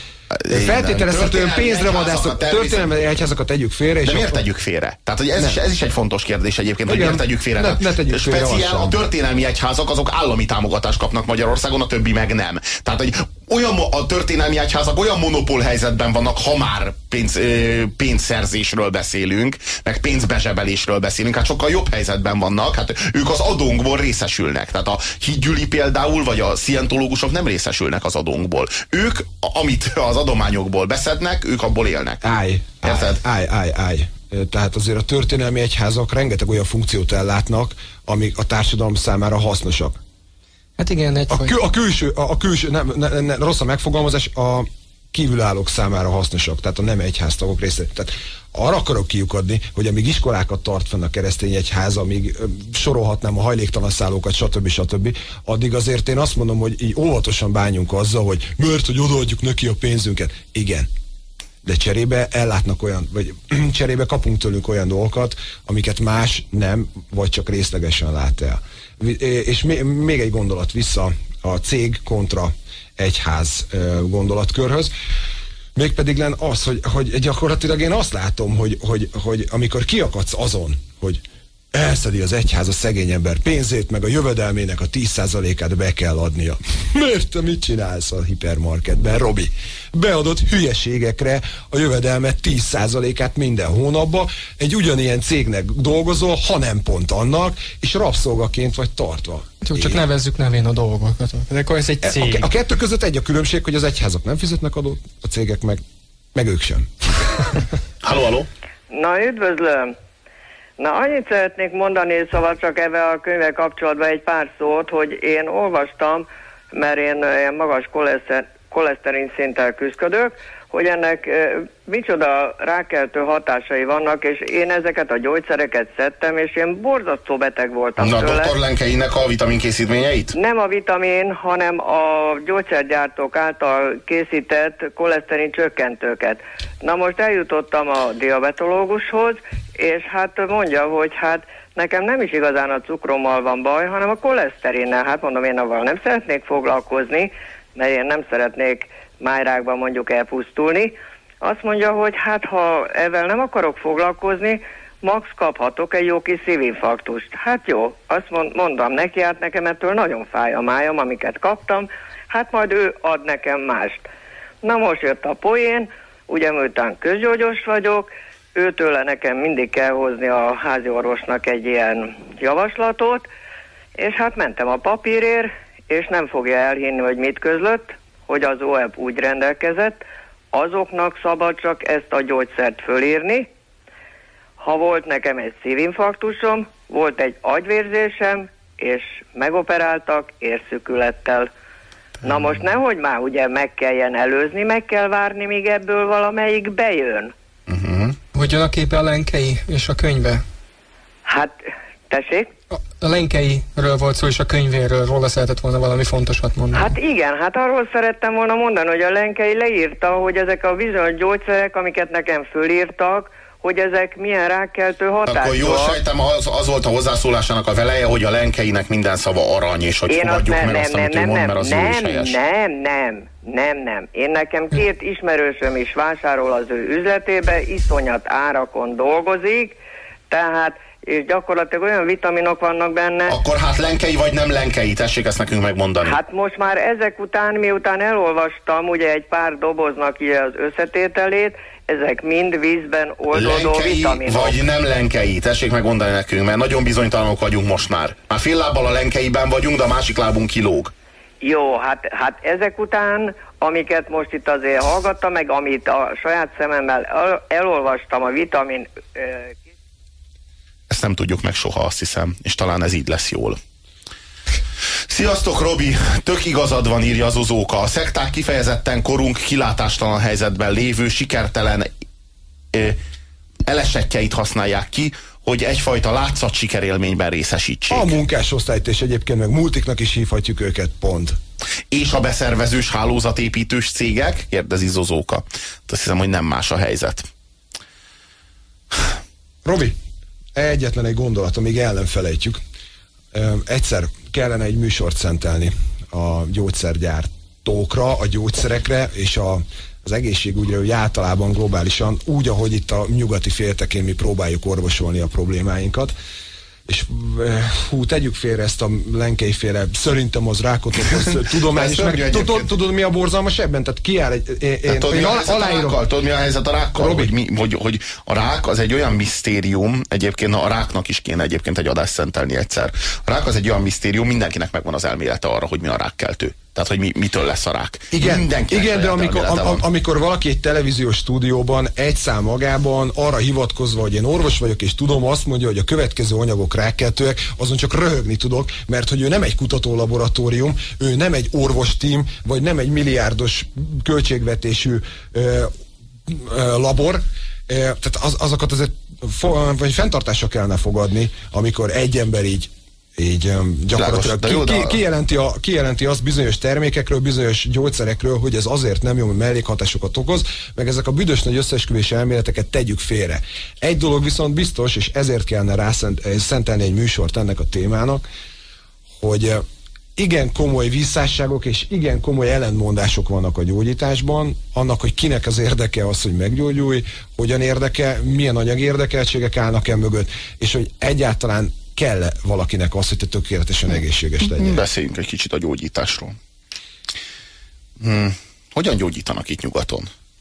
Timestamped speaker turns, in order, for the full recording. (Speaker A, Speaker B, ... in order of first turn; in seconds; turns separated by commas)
Speaker A: 0.4-2.9, Speaker B: 0.5-4.4, Speaker A: 4.0-32.2, Speaker B: 6.9-9.0, Speaker B: 32.2-40.0, Speaker A: 32.8-33.2, Speaker C: 40.8-41.5, Speaker B: 41.3-60.9, Speaker B: 61.6-74.9, Speaker B: 75.8-100.0, Speaker C: 99.6-102.5, Speaker B: 102.0-105.8, Speaker B: 106.3-106.9, Speaker A: 108.0-108.5, Speaker D: 108.9-109.9, Speaker D: 110.8-128.5, Speaker A: 128.0-130.3, Speaker D: 130.3-164.1, Speaker D: 164.6-173.3, Speaker D: 174.0-183.5, Speaker D: 184.6-191.5, Speaker D: 192.2-197.3, Speaker A: 197.7-198.2, Speaker C: 198.3-200.4, Speaker D: 201.3-201.6, Speaker D: 202.1-202.5, Speaker C: 202.8-206.9, Speaker D: 206.7-216.0, Speaker A: 215.3-222.4, Speaker D: 220.1-229.8, Speaker D: 230.3-233.4, Speaker A: 233.3-236.2, Speaker D: 236.0-244.6, Speaker A: 243.3-250.9, Speaker D: 251.4-259.6, Speaker A: 260.9-263.6, Speaker A: 265.1-271.9, Speaker A: 272.7-273.0, Speaker A: 273.7-278.1, Speaker B: 277.9-281.4, Speaker A: 281.9-287.3, Speaker B: 289.6-290.0, Speaker B: 290.6-292.6, Speaker B: 293.3-306.1, Speaker B: 306.9-316.0, Speaker A: 311.0-312.7, Speaker A: 314.9-329.8, Speaker B: 316.9-317.3, Speaker B: 328.1-345.7, Speaker B: 346.3-368.3, Speaker A: 354.0-355.0, Speaker B: 369.2-369.6, Speaker B: 370.2-384.8, Speaker A: 384.4-386.4, Speaker A: 388.0-390.1